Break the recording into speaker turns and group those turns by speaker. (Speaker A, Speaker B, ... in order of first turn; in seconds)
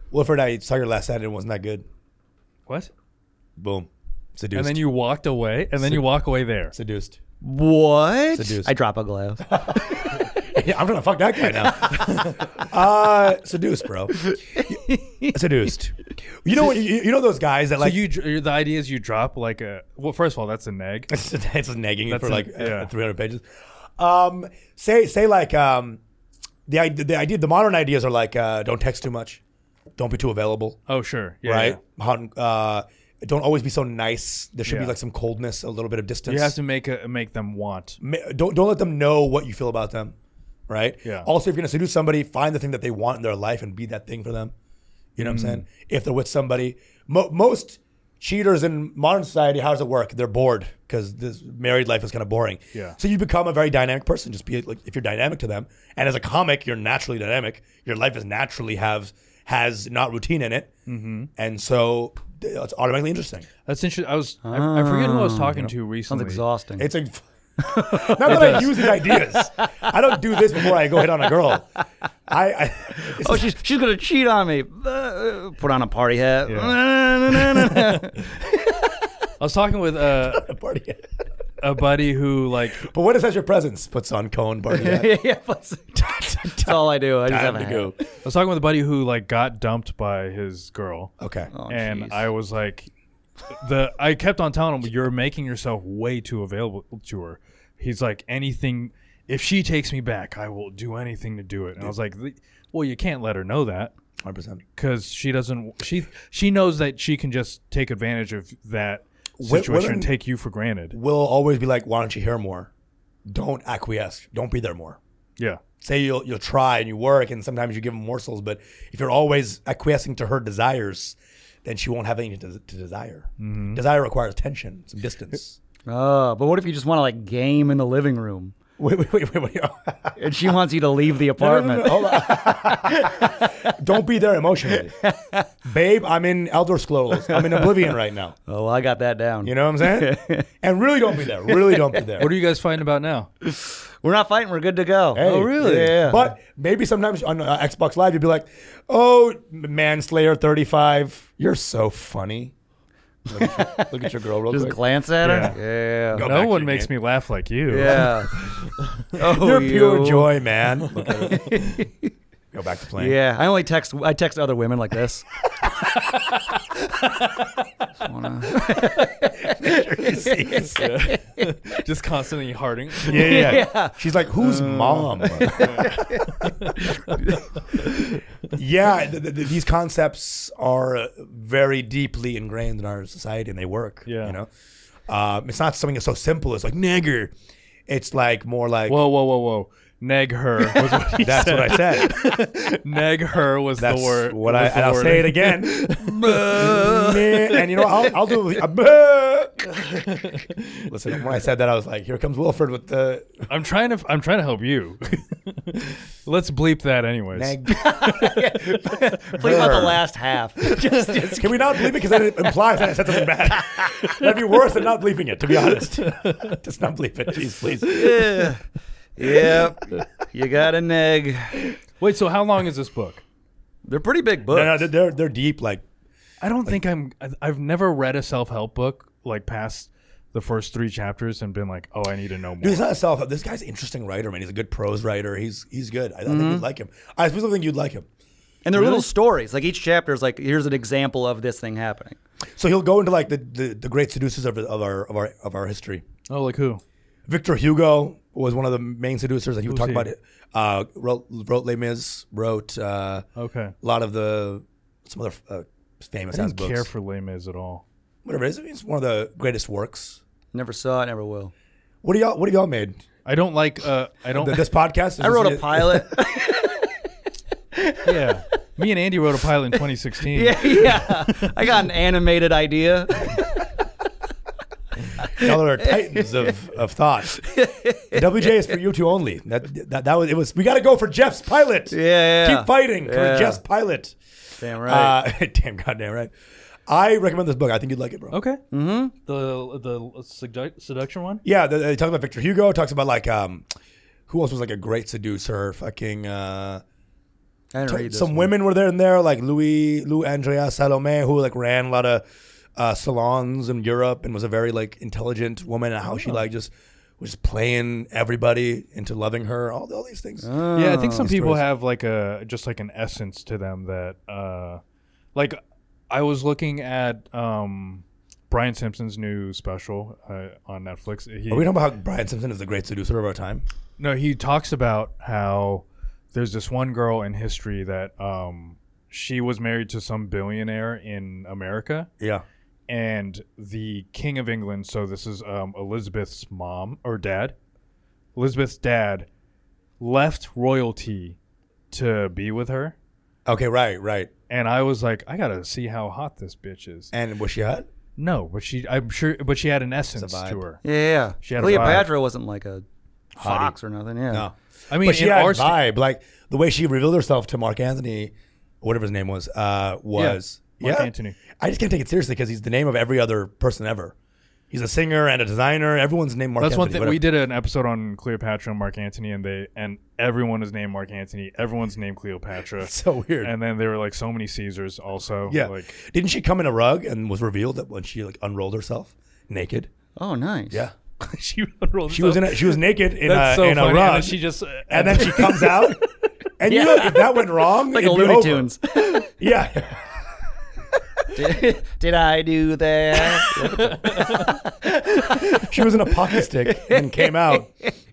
Speaker A: 0.1-1.8, 3.6-4.8, 5.8-6.0, 6.7-7.2, 8.3-8.7, 9.5-14.8, 15.3-18.0, 21.1-23.4, 24.0-26.0, 26.7-29.4, 30.0-30.8, 31.4-36.5, 38.0-40.1, 40.7-44.5, 45.1-60.7, 61.4-63.5, 66.8-67.2, 67.8-71.7, 72.3-73.5, 80.2-81.0, 82.7-85.1, 86.0-88.0, 91.2-91.5, 104.2-104.6, 109.4-110.1, 110.9-112.7, 113.2-115.0, 115.8-125.6, 128.8-130.2, 131.4-134.9, 135.6-138.3, 139.4-142.3, 145.1-152.5, 153.3-154.8, 156.1-156.9, 159.2-161.4, 162.5-163.2, 169.4-170.8, 173.0-176.1, 178.5-184.5, 185.1-187.3, 187.9-189.0, 190.7-192.5, 193.8-199.8, 200.9-203.5, 207.3-210.0, 210.7-218.2, 224.5-225.8, 232.6-238.1, 242.6-246.0, 247.3-253.2, 253.8-256.9, 258.2-260.2, 262.0-263.0, 264.4-266.1, 275.3-277.4, 278.1-286.3, 286.9-288.3, 291.4-293.7, 294.3-296.8, 297.9-302.2, 302.8-310.5, 311.1-311.6, 321.5-323.6, 332.2-332.4, 343.4-344.3, 347.1-347.9, 350.2-350.6, 351.6-352.0, 353.4-353.8, 354.3-364.1, 364.7-367.3, 372.8-373.5, 375.5-379.9, 382.1-386.0, 386.6-388.7, 389.4-390.1, 395.3-397.7
Speaker B: 4.5-6.7, 17.8-21.1, 22.1-22.9, 30.9-31.8, 34.6-35.0, 36.3-38.0, 41.0-41.3, 45.2-45.6, 60.9-61.3, 63.6-66.4, 68.2-68.7, 76.5-76.8, 77.3-78.1, 79.4-80.5, 81.6-82.9, 88.2-91.1, 91.7-92.9, 93.5-103.9, 104.8-111.0, 123.4-123.8, 142.2-143.3, 145.2-146.0, 155.2-155.6, 156.2-159.0, 161.0-161.5, 166.1-167.5, 170.7-173.6, 175.4-178.2, 184.1-184.4, 188.9-196.9, 199.8-200.9, 203.5-207.6, 215.9-216.6, 217.8-218.4, 222.0-223.2, 226.4-232.8, 238.7-239.1, 246.3-246.8, 249.6-250.1, 253.3-253.7, 256.3-257.8, 263.2-264.6, 268.0-271.5, 288.3-288.6, 289.2-291.4, 310.7-314.8, 315.3-321.7, 324.0-332.1, 332.9-337.5, 338.4-339.3, 340.0-341.4, 341.9-342.9, 344.5-347.1, 348.2-350.8, 351.4-352.1, 354.9-355.8, 360.1-361.4, 366.6-376.0, 381.2-385.6, 393.5-394.6
Speaker C: 7.4-9.6, 14.2-15.4, 64.4-66.9, 67.6-71.4, 73.0-79.1, 84.7-88.0, 91.5-92.3, 125.8-128.6, 130.2-133.7, 134.7-135.5, 137.2-137.9, 138.5-140.5, 141.3-142.1, 143.4-146.3, 153.3-156.2, 157.7-158.3, 159.2-160.3, 161.1-162.1, 163.0-165.3, 168.0-171.8, 173.0-177.9, 196.0-197.5, 207.7-212.5, 213.5-214.0, 217.9-218.6, 219.2-221.8, 223.8-224.8, 236.2-236.6, 238.6-242.2, 260.5-261.5, 265.2-267.0, 267.7-268.2, 270.3-273.6, 275.2-276.5, 277.3-278.7, 281.9-283.6, 284.6-285.2, 288.7-289.1, 297.7-298.5, 310.4-311.3, 350.8-352.8, 353.4-354.4, 380.2-380.8, 385.4-385.9, 386.6-389.3, 391.3-397.9